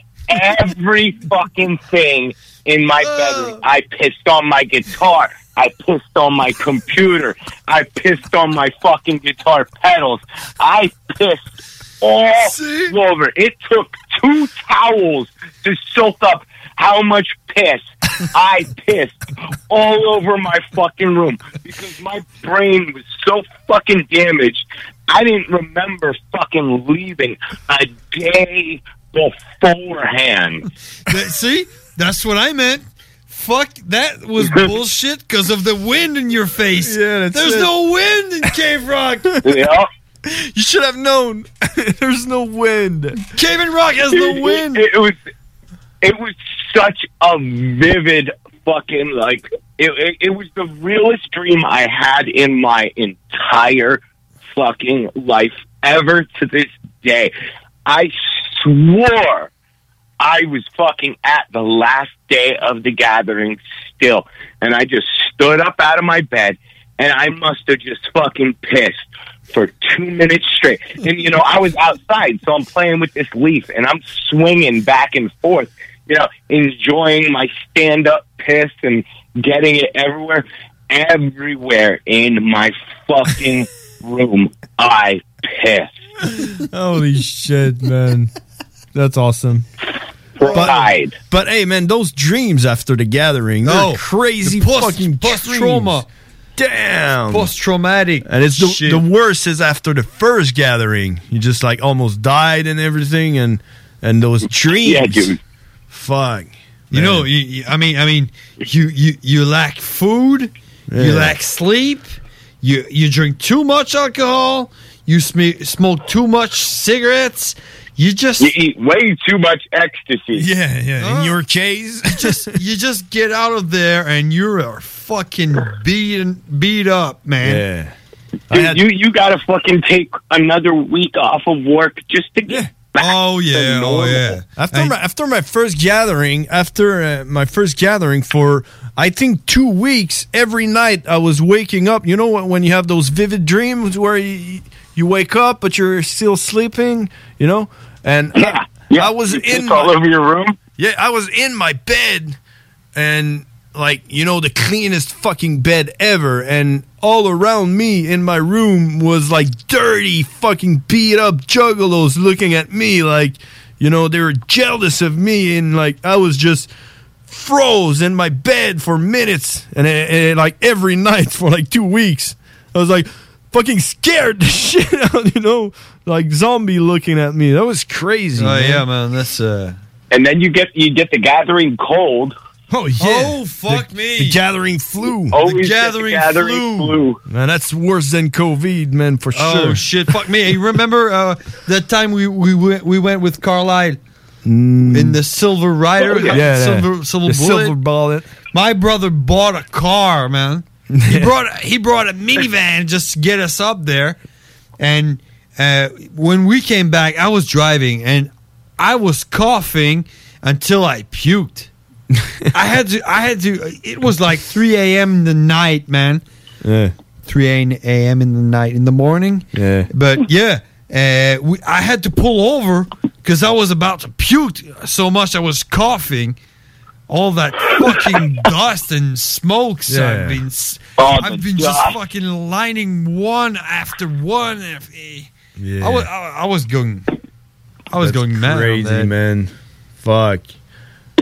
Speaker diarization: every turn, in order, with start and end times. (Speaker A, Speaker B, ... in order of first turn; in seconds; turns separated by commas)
Speaker A: 0.3-11.4, Speaker B: 3.0-3.6, Speaker A: 12.0-17.8, Speaker B: 12.4-12.9, Speaker A: 18.3-19.2, Speaker A: 19.7-30.6, Speaker B: 31.1-39.3, Speaker A: 34.4-34.7, Speaker C: 36.8-37.7, Speaker A: 39.4-39.9, Speaker C: 40.2-43.2, Speaker B: 43.3-44.8, Speaker A: 44.1-45.1, Speaker A: 46.0-54.0, Speaker A: 54.5-57.3, Speaker A: 57.9-59.5, Speaker A: 60.2-85.9, Speaker C: 86.6-88.3, Speaker C: 88.9-89.7, Speaker A: 90.4-91.1, Speaker C: 90.5-96.0, Speaker B: 93.6-96.1, Speaker C: 96.6-97.5, Speaker B: 97.3-99.0, Speaker C: 98.2-105.3, Speaker A: 104.7-105.4, Speaker C: 105.9-107.3, Speaker B: 106.9-112.1, Speaker C: 110.9-111.3, Speaker B: 112.6-118.5, Speaker A: 118.4-120.5, Speaker C: 120.3-122.5, Speaker B: 121.0-121.4, Speaker B: 122.1-127.6, Speaker C: 127.4-127.9, Speaker C: 128.5-128.8, Speaker A: 128.5-134.4, Speaker B: 133.0-134.9, Speaker C: 134.6-149.9, Speaker A: 148.3-150.6, Speaker C: 150.8-152.4, Speaker C: 152.9-166.7, Speaker C: 167.3-178.8, Speaker B: 178.4-179.8, Speaker A: 180.1-182.3, Speaker C: 182.7-185.4, Speaker B: 183.0-184.4, Speaker A: 185.3-187.2, Speaker B: 185.3-187.0, Speaker C: 187.3-189.8, Speaker B: 189.3-194.0, Speaker C: 194.4-195.2, Speaker B: 194.9-197.8, Speaker A: 196.0-196.4, Speaker C: 196.3-198.3, Speaker B: 198.5-204.2, Speaker C: 200.9-201.3, Speaker B: 204.8-211.7, Speaker B: 212.5-216.2, Speaker C: 216.6-216.9, Speaker B: 217.2-226.4, Speaker C: 219.5-219.9, Speaker B: 227.1-235.3, Speaker C: 229.9-230.4, Speaker A: 231.0-231.9, Speaker C: 235.6-236.1, Speaker B: 235.8-237.1, Speaker B: 237.9-239.1, Speaker C: 238.0-239.5, Speaker C: 240.0-240.5